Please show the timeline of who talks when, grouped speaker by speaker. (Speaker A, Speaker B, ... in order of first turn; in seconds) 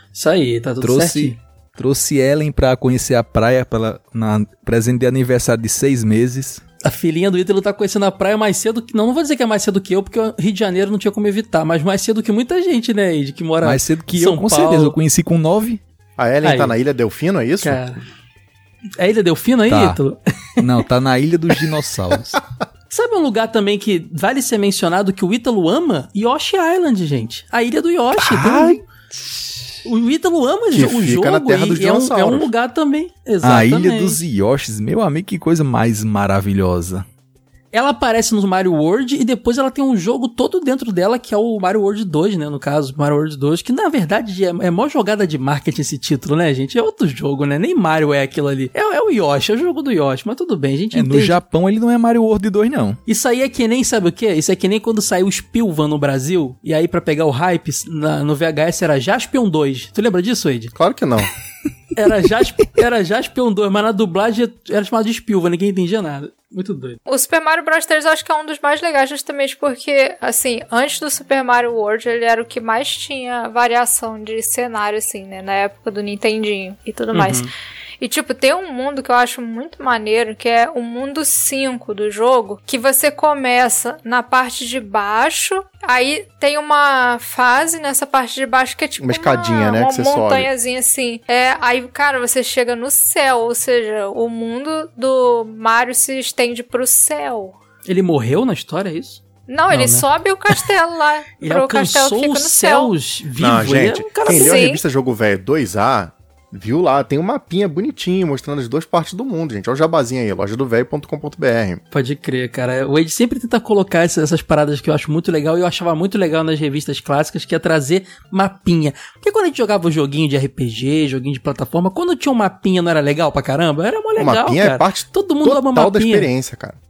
Speaker A: 0.1-1.4, 6.8-15.0, 16.4-16.8, 17.6-18.0, 19.0-20.6, 22.9-28.8, 29.9-34.2, 37.7-51.4, 53.1-60.7, 62.0-67.0, 77.1-77.5, 97.9-100.1, 101.4-104.7, 111.9-126.3
Speaker B: 0.8-6.6, 13.6-15.8, 19.7-20.0, 20.6-22.4, 28.2-28.8, 33.4-37.0, 50.9-53.0
Speaker C: 16.2-17.9, 30.7-32.5, 60.8-61.3, 89.0-90.5, 103.4-111.8, 124.2-126.8
Speaker D: 67.1-77.5, 78.0-97.6, 99.5-102.9, 104.3-104.8